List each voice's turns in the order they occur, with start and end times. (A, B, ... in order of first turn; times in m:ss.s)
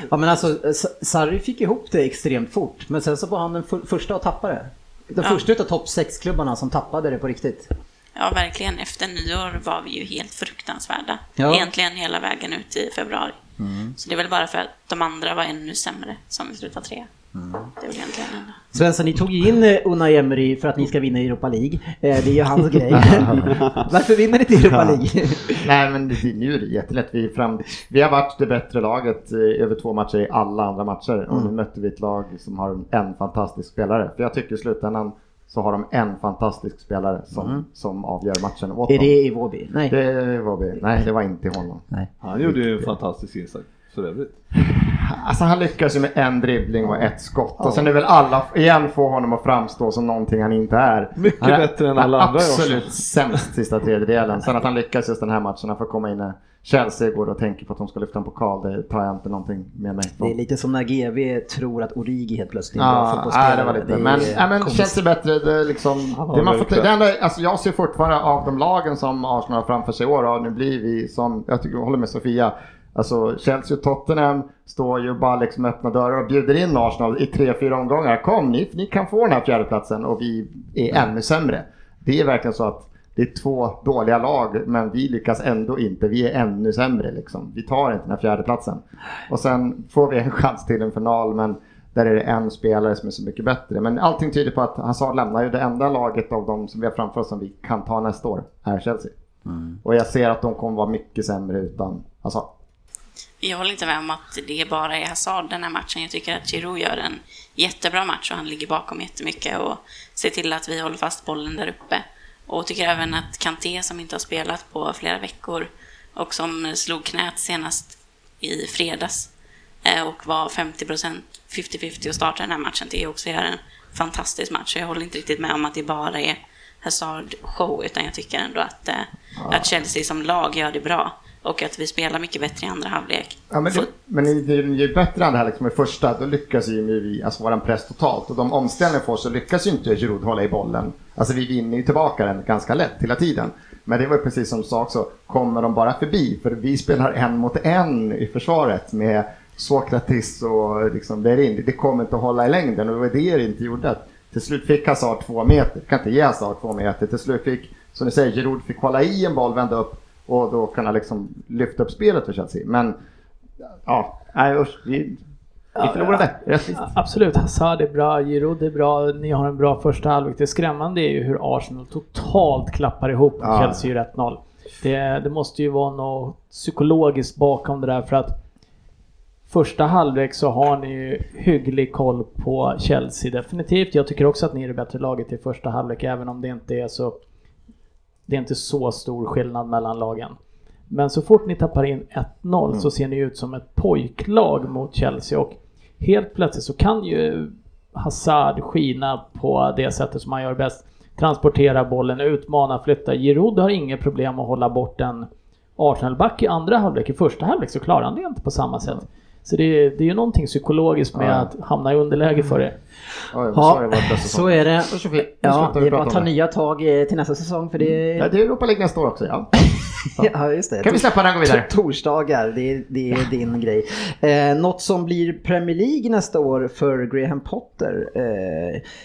0:00.1-0:07.7 A
0:08.2-0:13.4 B
0:11.4-0:11.7 A
0:13.6-0:14.0 A
0:14.0-0:17.1 B
0:17.4-0:17.7 A
0:17.8-0:18.6 B
0:18.7-0:25.6 A
0:23.0-0:23.4 C
0:25.6-0:39.2 C
0:37.4-0:37.6 A
0:38.9-0:40.0 A
0:39.9-0:41.8 C
0:42.2-0:44.4 D
0:44.6-1:00.3 C
0:47.6-0:47.9 D
0:51.2-0:53.0 D
1:00.2-1:05.0 A
1:02.8-1:39.1 C
1:06.2-1:06.9 D
1:39.5-1:39.8 A
1:39.8-1:42.5 C
1:43.4-1:59.3 B
1:59.8-2:13.8 B
2:09.4-2:09.7 C
2:13.5-2:43.0 C
2:43.9-2:45.2 C
2:45.8-2:46.8 C
2:46.7-2:58.4 E
2:53.4-2:53.8 C
2:59.5-3:07.2 E
3:08.3-3:10.4 E
3:10.9-3:32.8 E
3:31.1-3:31.5 C
3:33.3-3:36.3 C
3:33.5-3:38.3 A
3:38.2-3:39.5 C
3:40.2-3:48.8 A
3:40.8-3:41.7 C